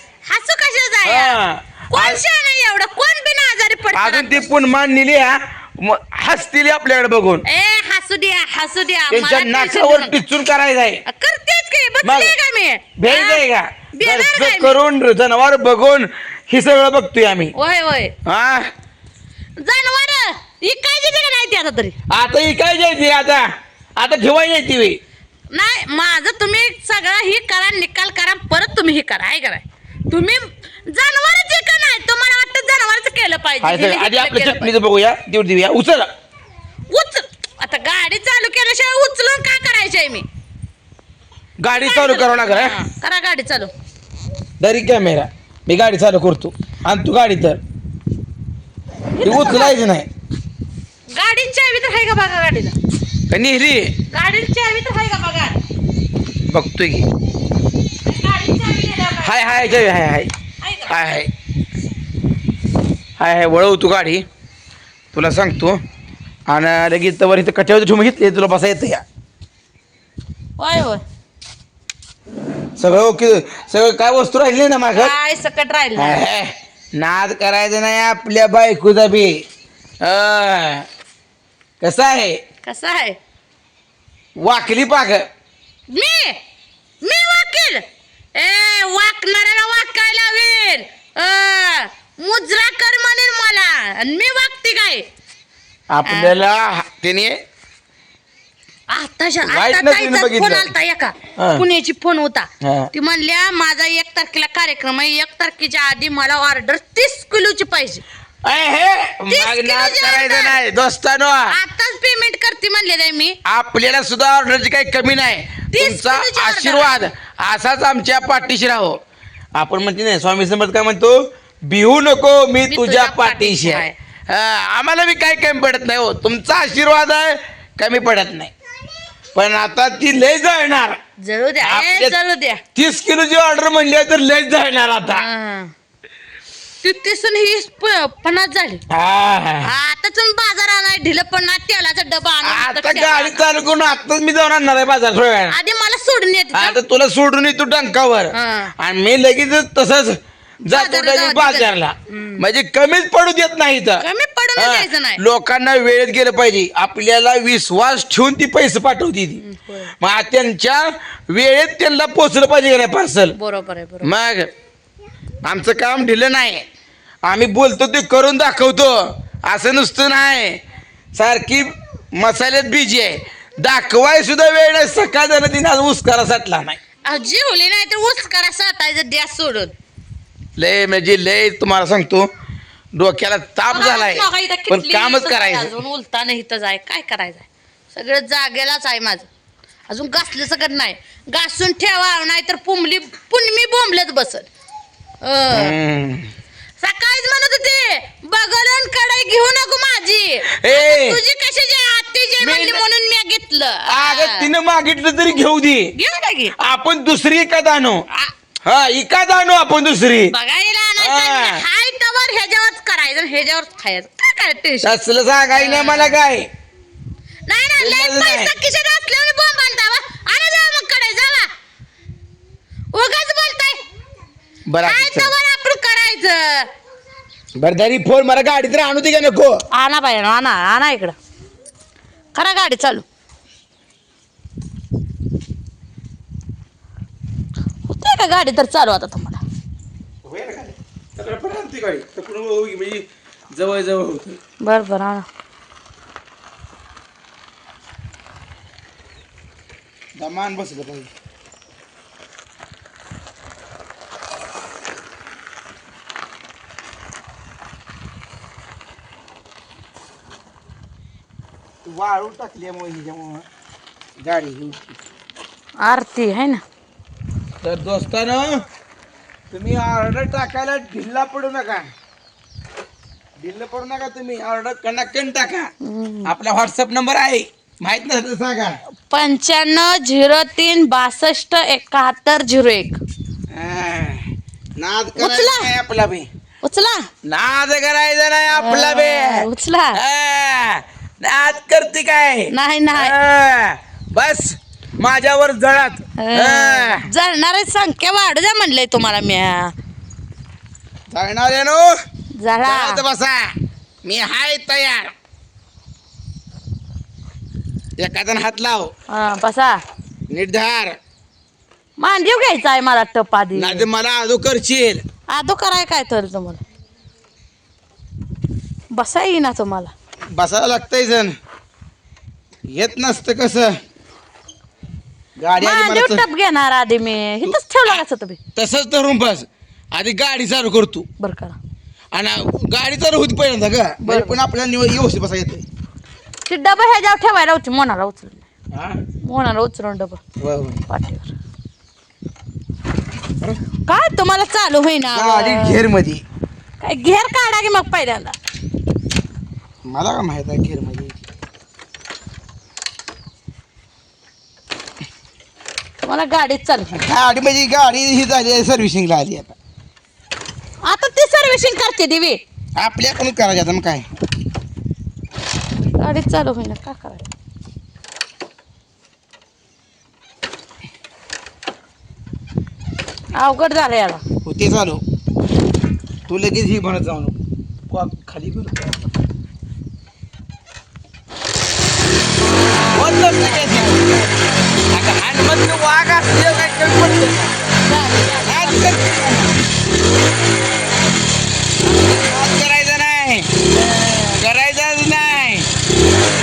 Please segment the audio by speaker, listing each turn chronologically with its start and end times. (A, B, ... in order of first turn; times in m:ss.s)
0:00.2-0:01.4 A
0:01.0-0:02.2 B
0:01.9-0:04.5 A
0:03.9-0:07.4 B
0:07.5-0:10.2 A
0:09.1-0:11.0 B
0:11.1-0:13.4 A
0:12.0-0:12.4 B
0:13.0-0:17.5 B
0:14.0-0:14.8 A
0:17.6-0:18.1 A
0:18.2-0:18.7 B
0:19.6-0:22.0 A
0:22.1-0:25.0 B
0:25.5-0:34.7 A
0:33.6-0:36.1 B
0:36.9-0:40.2 A
0:41.6-0:42.8 B
0:41.7-0:43.7 A
0:44.6-0:47.6 B
0:49.1-0:49.8 A
0:49.2-0:50.1 B
0:51.2-0:52.8 A
0:53.3-0:53.9 B
0:54.1-0:55.6 A
0:56.5-0:57.1 B
0:58.1-0:59.4 A
0:59.2-1:00.3 B
1:00.6-1:01.0 A
1:00.9-1:01.3 B
1:03.2-1:04.2 B
1:05.1-1:05.8 B
1:06.5-1:09.0 B
1:10.6-1:11.0 A
1:12.8-1:15.1 B
1:14.9-1:16.2 A
1:16.0-1:19.4 B
1:20.0-1:20.9 B
1:21.8-1:22.4 B
1:22.6-1:23.2 A
1:24.4-1:25.2 B
1:25.9-1:26.4 A
1:27.0-1:27.8 A
1:28.4-1:35.1 A
1:35.9-1:37.4 B
1:36.0-1:36.3 A
1:38.9-1:48.0 A
1:39.4-1:40.7 B
1:41.4-1:41.6 B
1:42.6-1:42.9 B
1:48.4-1:51.6 B
1:49.3-1:50.6 A
1:51.5-1:53.4 A
1:53.4-1:59.0 B
1:55.7-1:57.0 A
1:59.6-2:08.5 B
2:02.7-2:04.0 A
2:09.4-2:11.0 B
2:11.2-2:12.6 A
2:11.6-2:12.2 B
2:12.8-2:15.2 B
2:15.1-2:15.7 A
2:16.8-2:18.8 A
2:18.9-2:19.7 B
2:19.6-2:23.4 A
2:22.4-2:25.6 B
2:25.5-2:26.8 A
2:26.5-2:34.0 B
2:28.3-2:28.7 A
2:30.7-2:32.4 A
2:34.0-2:35.2 A
2:34.6-2:39.4 B
2:39.4-2:39.9 A
2:40.0-2:43.4 B
2:43.4-2:44.1 A
2:44.0-2:44.5 B
2:45.4-2:46.7 B
2:47.3-2:50.6 B
2:51.2-2:56.8 B
2:57.0-2:59.7 A
3:00.6-3:02.3 B
3:02.9-3:05.7 B
3:03.7-3:09.3 A
3:09.9-3:14.5 A
3:15.2-3:15.8 A
3:15.5-3:16.3 B
3:16.8-3:24.5 A
3:20.6-3:21.2 B
3:22.4-3:22.8 B
3:23.9-3:25.9 B
3:26.0-3:26.6 A
3:26.6-3:28.0 B
3:28.6-3:30.3 B
3:30.3-3:34.9 A
3:31.0-3:31.6 B
3:34.8-3:36.5 B
3:35.6-3:36.2 A
3:37.5-3:41.5 A
3:37.8-3:38.5 B
3:42.9-3:43.8 A
3:44.7-3:45.3 B
3:44.8-3:46.7 A
3:47.6-3:49.6 B
3:49.7-3:51.2 A
3:52.4-3:53.1 A
3:57.9-3:59.4 A
4:00.2-4:04.4 B
4:04.6-4:05.3 A
4:10.2-4:11.1 B
4:21.8-4:23.4 B
4:24.2-4:25.0 B
4:25.8-4:26.6 A
4:27.6-4:28.6 B
4:29.5-4:31.9 B
4:33.4-4:35.7 B
4:35.8-4:36.3 A
4:36.2-4:38.8 B
4:39.1-4:43.0 A
4:43.5-4:46.3 B
4:45.2-4:45.7 A
4:46.6-4:47.1 A
4:47.2-4:57.1 B
4:48.5-4:50.0 A
4:52.5-4:53.2 A
4:56.2-4:59.7 A
5:01.1-5:01.9 B
5:02.4-5:03.0 A
5:02.6-5:03.5 B
5:04.0-5:05.1 B
5:08.0-5:08.9 B
5:09.1-5:09.8 A
5:10.3-5:11.0 B
5:12.0-5:13.9 A
5:13.5-5:15.0 B
5:15.3-5:16.6 A
5:18.9-5:19.9 A
5:20.3-5:21.4 B
5:22.7-5:23.8 B
5:25.4-5:26.2 B
5:25.6-5:28.4 A
5:27.4-5:28.0 B
5:28.6-5:31.1 B
5:31.2-5:31.6 A
5:32.1-5:35.6 B
5:34.0-5:34.4 A
5:36.5-5:38.5 A
5:38.7-5:39.0 B
5:39.2-5:40.2 A
5:40.4-5:40.8 B
5:40.9-5:41.3 A
5:43.9-5:45.8 A
5:45.1-5:46.2 B
5:46.8-5:48.4 A
5:49.9-5:51.2 B
5:56.1-5:56.9 A
5:56.9-5:59.6 B
6:00.8-6:02.4 A
6:02.8-6:04.1 B
6:06.0-6:07.3 A
6:13.3-6:14.2 A
6:14.4-6:15.0 B
6:16.3-6:17.4 B
6:17.9-6:19.1 B
6:22.6-6:23.9 A
6:22.9-6:24.3 B
6:24.9-6:27.5 B
6:27.8-6:28.9 A
6:28.4-6:29.6 B
6:32.1-6:33.5 B
6:34.1-6:35.7 B